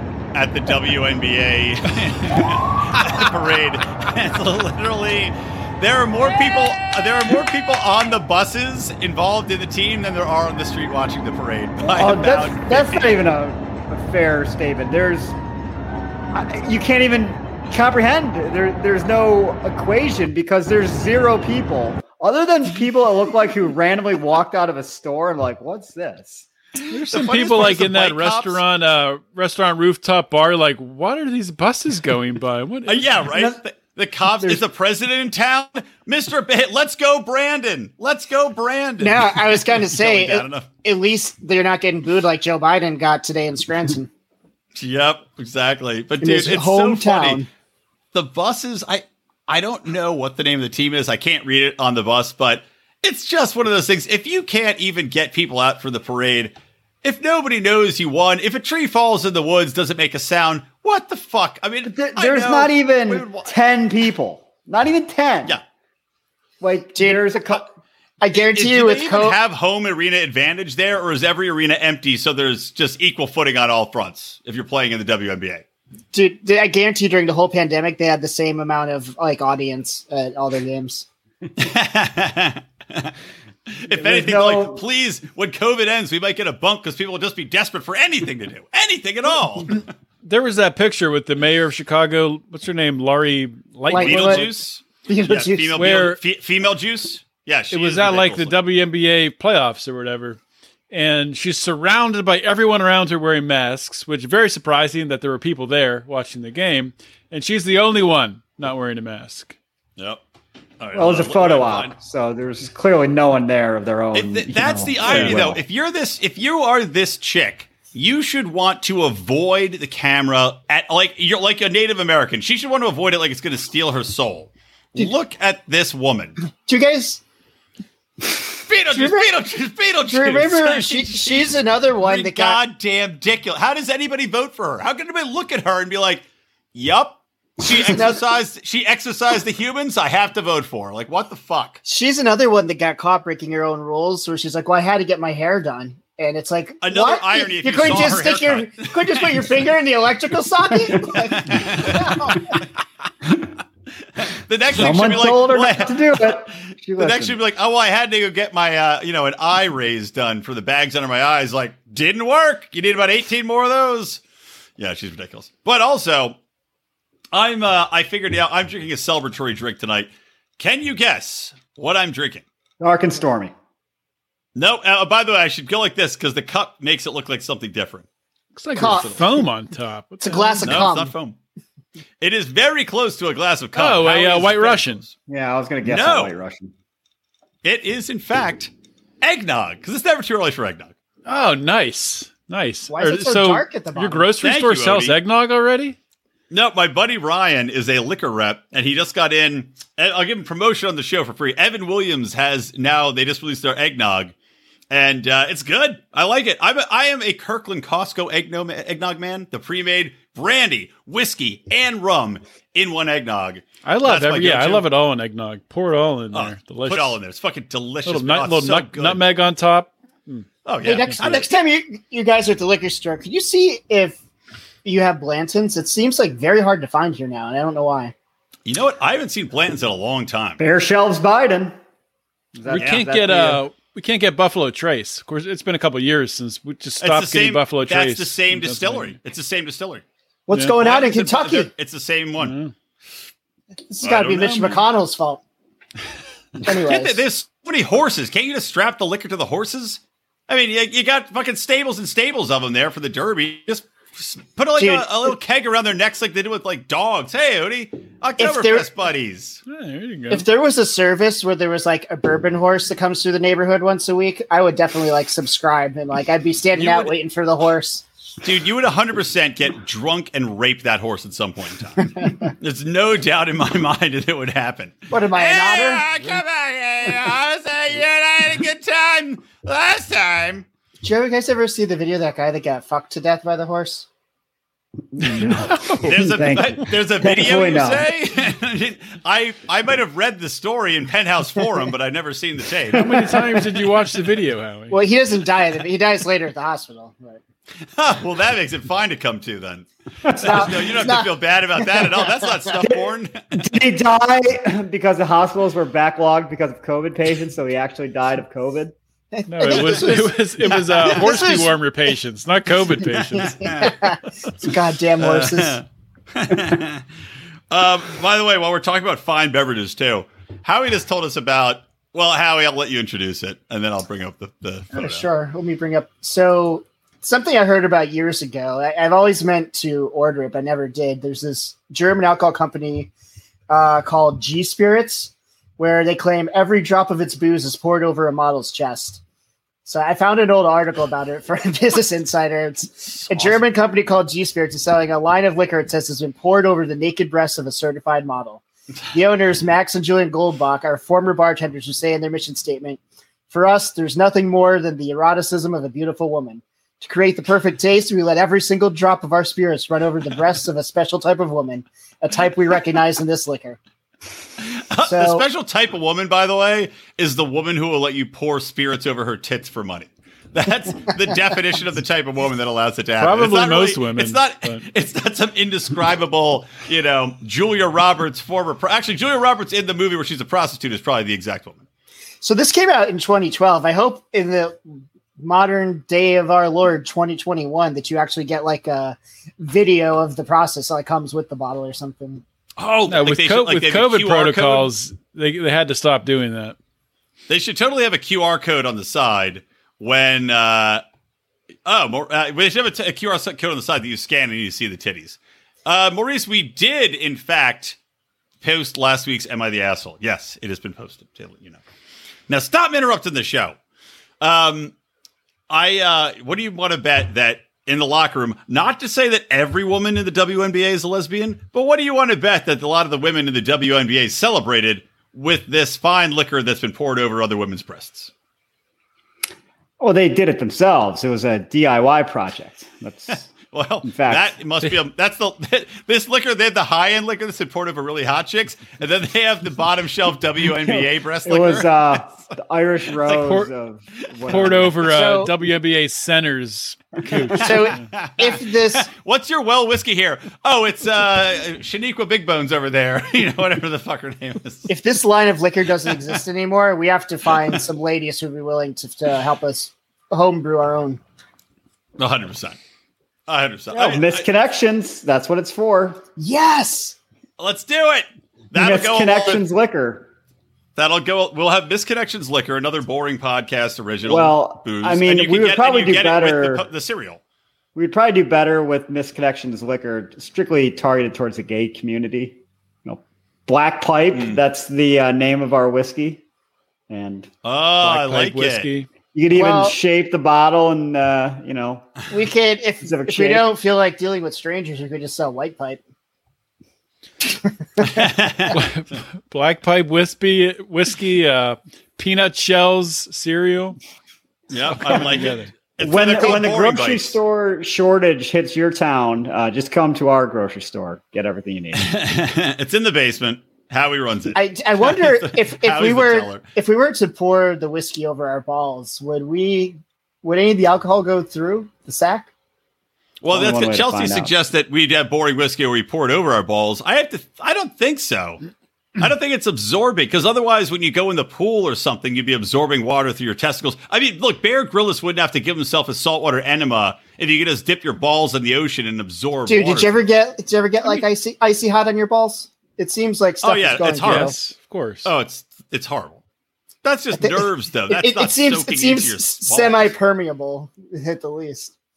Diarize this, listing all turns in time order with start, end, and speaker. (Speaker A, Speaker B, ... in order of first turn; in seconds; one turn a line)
Speaker A: 0.3-13.2
Speaker B: 11.9-15.4
Speaker B: 16.3-26.5
Speaker A: 26.8-28.6
Speaker C: 26.9-33.1
Speaker A: 32.9-40.7
Speaker D: 39.0-44.1
Speaker A: 44.7-47.4
Speaker D: 46.2-47.5
Speaker A: 48.1-63.5
Speaker B: 61.8-65.6
Speaker B: 66.6-67.7
Speaker D: 67.0-67.3
Speaker D: 68.2-69.3
Speaker A: 68.5-75.6
Speaker D: 76.1-81.0
Speaker A: 81.6-83.1
Speaker A: 83.8-89.8
Speaker B: 83.9-84.8
Speaker C: 90.2-94.5
Speaker D: 93.9-94.5
Speaker A: 94.0-98.6
Speaker D: 95.1-95.8
Speaker C: 95.7-96.2
Speaker C: 97.7-100.4
Speaker C: 100.9-109.5
Speaker A: 110.8-111.9
Speaker B: 110.9-115.6
Speaker A: 114.1-126.4
Speaker C: 115.1-115.4
Speaker D: 126.6-127.2
Speaker A: 128.6-141.8
Speaker D: 128.9-129.2
Speaker D: 130.1-132.6
Speaker D: 137.9-138.2
Speaker D: 141.8-152.5
Speaker A: 146.8-149.5
Speaker A: 151.3-152.1
Speaker A: 154.3-156.4
Speaker B: 154.7-157.4
Speaker A: 157.0-164.2
Speaker A: 164.8-166.3
Speaker A: 167.3-172.4
Speaker B: 172.8-173.5
Speaker A: 174.5-178.0
Speaker C: 178.5-180.9
Speaker D: 178.8-179.4
Speaker D: 180.2-181.1
Speaker A: 180.6-181.4
Speaker A: 182.2-185.1
Speaker C: 183.7-185.0
Speaker B: 185.3-186.7
Speaker A: 185.8-186.3
Speaker A: 187.6-190.9
Speaker C: 191.2-195.9
Speaker D: 192.9-194.3
Speaker A: 194.4-195.2
Speaker A: 196.5-204.3
Speaker A: 204.9-214.8
Speaker C: 213.8-217.2
Speaker A: 216.3-219.2
Speaker C: 218.1-220.5
Speaker A: 220.6-221.5
Speaker D: 220.8-224.2
Speaker D: 224.8-228.1
Speaker A: 228.7-230.6
Speaker B: 230.6-231.8
Speaker B: 232.5-233.6
Speaker C: 232.7-239.2
Speaker A: 232.7-233.0
Speaker A: 237.0-240.0
Speaker D: 240.5-241.7
Speaker C: 240.5-240.8
Speaker A: 240.8-242.5
Speaker C: 242.4-242.7
Speaker D: 243.9-245.4
Speaker A: 244.0-244.8
Speaker D: 246.6-247.2
Speaker A: 246.8-259.6
Speaker D: 254.8-255.3
Speaker D: 258.4-258.9
Speaker C: 259.7-260.5
Speaker D: 260.3-268.0
Speaker A: 266.8-267.1
Speaker A: 268.4-280.6
Speaker D: 275.1-276.0
Speaker D: 281.0-284.1
Speaker B: 285.2-288.1
Speaker C: 285.2-286.1
Speaker A: 286.0-293.1
Speaker C: 292.9-295.0
Speaker B: 293.0-293.4
Speaker D: 294.9-297.4
Speaker A: 298.0-303.7
Speaker B: 300.2-300.6
Speaker D: 300.4-302.7
Speaker B: 302.8-308.9
Speaker D: 309.3-310.5
Speaker C: 309.5-313.8
Speaker D: 311.0-311.7
Speaker D: 313.3-315.8
Speaker A: 313.6-313.9
Speaker A: 315.2-317.0
Speaker A: 317.7-325.3
Speaker D: 324.9-333.1
Speaker D: 333.7-339.2
Speaker D: 339.8-363.8
Speaker A: 343.1-343.7
Speaker A: 364.8-381.8
Speaker D: 365.0-365.4
Speaker C: 373.2-374.9
Speaker D: 382.4-384.8
Speaker D: 385.4-392.4
Speaker A: 392.8-394.9
Speaker C: 393.1-396.8
Speaker A: 397.5-401.0
Speaker A: 401.8-407.9
Speaker A: 408.6-411.8
Speaker A: 412.5-413.8
Speaker A: 414.4-414.9
Speaker A: 415.7-428.3
Speaker B: 430.0-433.5
Speaker A: 433.7-442.3
Speaker B: 434.0-434.5
Speaker B: 440.8-445.0
Speaker C: 443.3-443.7
Speaker C: 444.5-448.0
Speaker D: 445.0-445.5
Speaker D: 447.6-449.1
Speaker A: 447.7-454.9
Speaker D: 454.9-461.2
Speaker A: 462.2-462.8
Speaker A: 463.5-464.4
Speaker B: 463.9-466.2
Speaker D: 466.4-467.1
Speaker A: 467.6-469.6
Speaker B: 468.7-470.3
Speaker A: 470.9-477.4
Speaker B: 474.2-476.9
Speaker B: 477.9-486.4
Speaker A: 484.3-484.6
Speaker B: 487.1-487.5
Speaker A: 487.6-488.9
Speaker C: 488.0-489.1
Speaker B: 489.3-492.1
Speaker D: 489.5-489.9
Speaker D: 492.3-496.0
Speaker B: 493.0-493.7
Speaker A: 498.1-498.8
Speaker C: 498.7-504.0
Speaker A: 504.7-507.3
Speaker C: 505.0-505.7
Speaker B: 506.0-512.1
Speaker A: 511.9-516.6
Speaker D: 514.5-522.5
Speaker A: 523.4-528.6
Speaker B: 523.5-524.5
Speaker A: 529.2-540.2
Speaker D: 539.7-544.5
Speaker A: 543.6-544.5
Speaker C: 544.2-545.3
Speaker A: 545.2-546.4
Speaker A: 547.0-550.1
Speaker D: 547.4-551.9